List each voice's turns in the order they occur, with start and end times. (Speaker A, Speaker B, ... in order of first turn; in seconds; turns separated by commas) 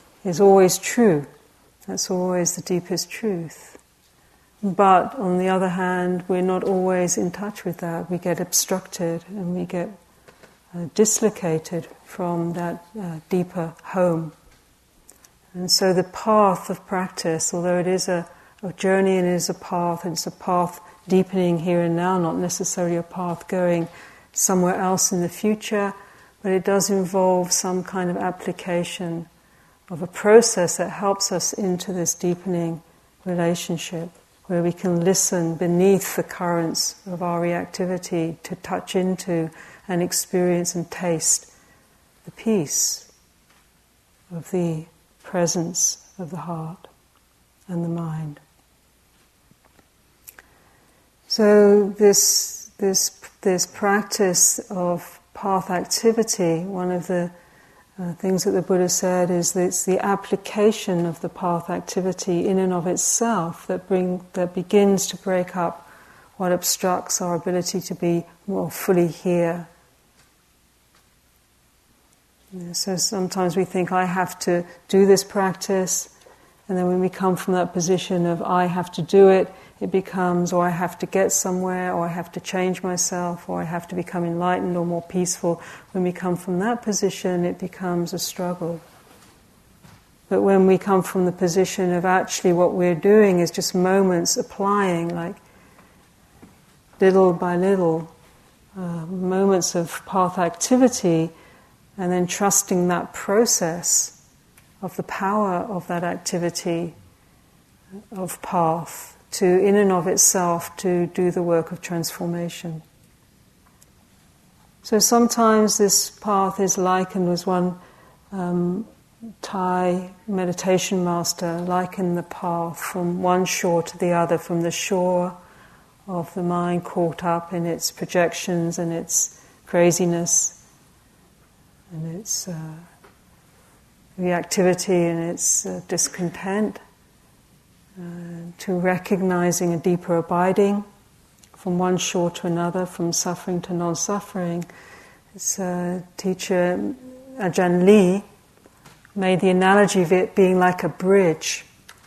Speaker A: 0.2-1.3, Speaker A: 1.9-3.8, Speaker A: 4.6-9.9, Speaker A: 10.7-14.3, Speaker A: 15.5-29.3, Speaker A: 29.9-41.5, Speaker A: 42.2-43.1, Speaker A: 44.3-46.9, Speaker A: 47.7-48.4, Speaker A: 51.3-57.3, Speaker A: 58.0-69.7, Speaker A: 72.5-76.1, Speaker A: 76.7-88.8, Speaker A: 90.3-95.4, Speaker A: 97.0-98.1, Speaker A: 98.8-101.3, Speaker A: 102.0-104.2, Speaker A: 104.8-107.0, Speaker A: 108.1-112.8, Speaker A: 114.8-117.8, Speaker A: 118.3-118.9, Speaker A: 119.4-125.4, Speaker A: 126.1-130.6, Speaker A: 131.9-132.8, Speaker A: 134.2-136.8, Speaker A: 138.0-140.8, Speaker A: 141.6-144.7, Speaker A: 145.3-148.2, Speaker A: 149.1-151.7